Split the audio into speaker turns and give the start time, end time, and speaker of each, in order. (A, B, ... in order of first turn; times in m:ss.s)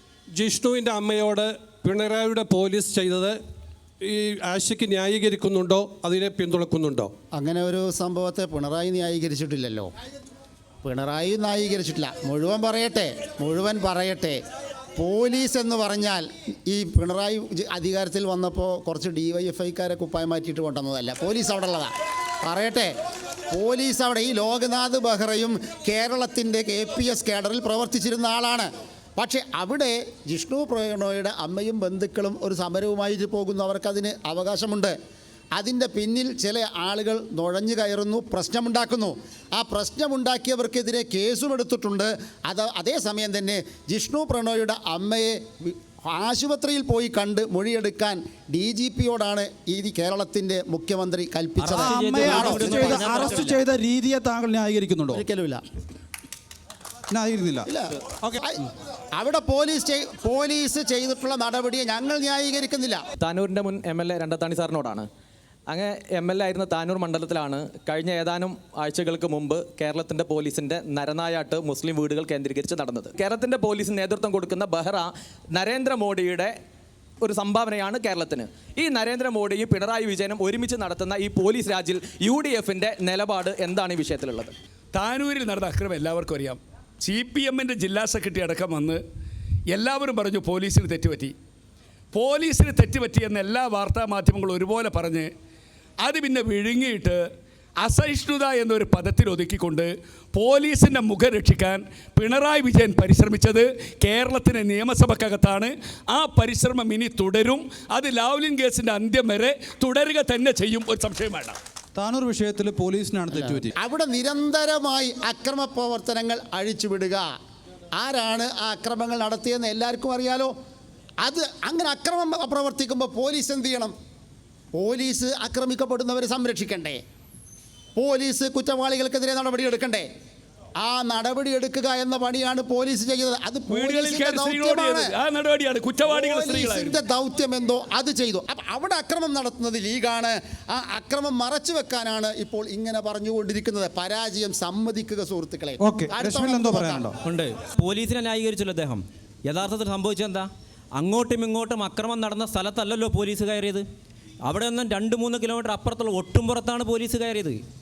0:00.4-0:03.3 A
0:04.2-0:07.1 A
0:07.4-0:09.9 B
0:10.8-0:14.4 B
0:15.0-0:21.9 B
0:22.4-0:22.9 B
0:23.5-0:35.0 B
0:35.6-0:53.3 B
0:51.6-0:53.6 C
0:51.8-0:55.2 D
0:55.1-0:55.6 B
0:57.1-0:57.7 D
0:57.7-0:58.6 B
0:59.2-1:03.0 B
1:03.2-1:05.1 E
1:05.7-1:16.6 E
1:17.2-1:24.5 E
1:25.0-1:29.0 F
1:29.7-1:31.3 F
1:32.1-1:35.3 F
1:36.0-1:37.2 F
1:37.8-1:51.6 F
1:52.0-1:53.7 D
1:53.3-1:57.3 B
1:58.0-2:00.5 B
2:01.2-2:03.9 B
2:04.8-2:07.0 B
2:08.0-2:10.1 B
2:10.8-2:15.1 B
2:13.7-2:17.0 F
2:16.1-2:27.1 B
2:25.8-2:27.1 D
2:27.2-2:33.8 C
2:34.4-2:37.6 C